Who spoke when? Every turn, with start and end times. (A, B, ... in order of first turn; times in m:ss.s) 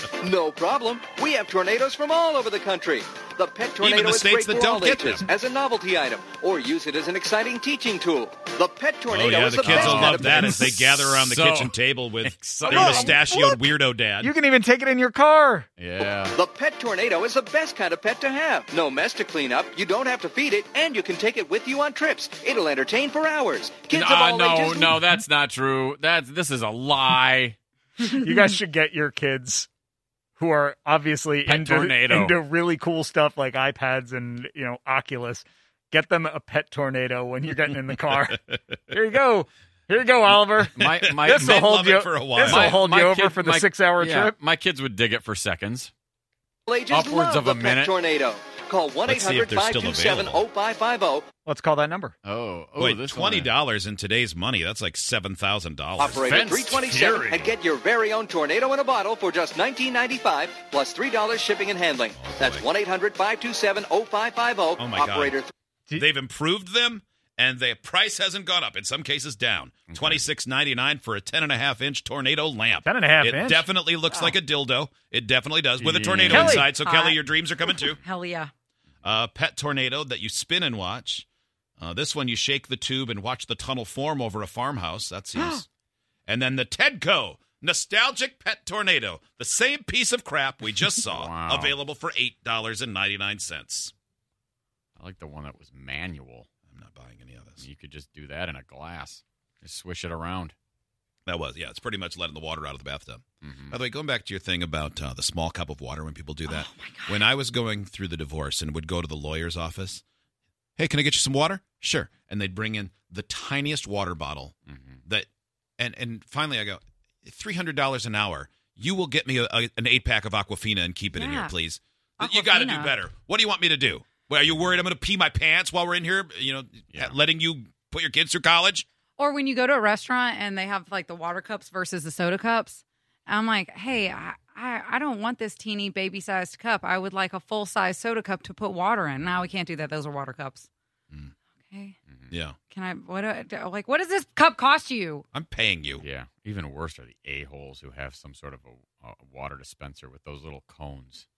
0:00.2-0:10.6 A
0:03.8-0:05.3 B
0:09.1-0:14.3 B
0:09.7-0:13.2 C
0:12.7-0:13.6 D
0:14.4-0:15.7 D
0:15.8-0:16.4 C
0:16.0-0:25.0 A
0:23.9-0:27.6 C
0:28.2-0:29.7 D
0:30.4-0:38.4 D
0:31.4-0:32.4 C
0:38.2-0:38.6 B
0:38.9-0:40.7 D
0:40.6-0:42.9 B
0:40.7-0:41.7 C
0:41.3-0:44.3 D
0:42.4-0:45.9 C
0:46.7-0:51.3 A
0:46.9-0:48.0 C
0:49.0-0:50.5 B
0:51.5-0:52.2 D
0:52.2-0:53.5 C
0:52.8-0:56.2 B
0:56.0-0:57.6 C
0:56.0-1:05.5 A
1:02.2-1:02.7 B
1:04.8-1:05.4 B
1:06.0-1:18.0 B
1:09.9-1:10.2 C
1:12.9-1:13.6 D
1:15.8-1:16.7 C
1:16.3-1:18.5 E
1:19.0-1:21.3 B
1:21.8-1:25.6 B
1:25.4-1:25.6 D
1:26.3-1:33.9 B
1:31.1-1:31.8 C
1:35.0-1:36.5 C
1:36.7-1:37.6 B
1:37.6-1:40.5 C
1:41.3-1:50.0 B
1:43.4-1:43.8 C
1:46.5-1:47.3 E
1:50.8-1:54.6 B
1:54.7-1:55.0 C
1:55.8-2:08.9 B
2:01.1-2:01.5 E
2:02.2-2:03.0 E
2:09.2-2:20.7 E
2:21.7-2:22.0 E
2:22.3-2:22.6 B
2:22.7-2:25.3 E
2:25.3-2:26.0 B
2:26.0-2:31.2 C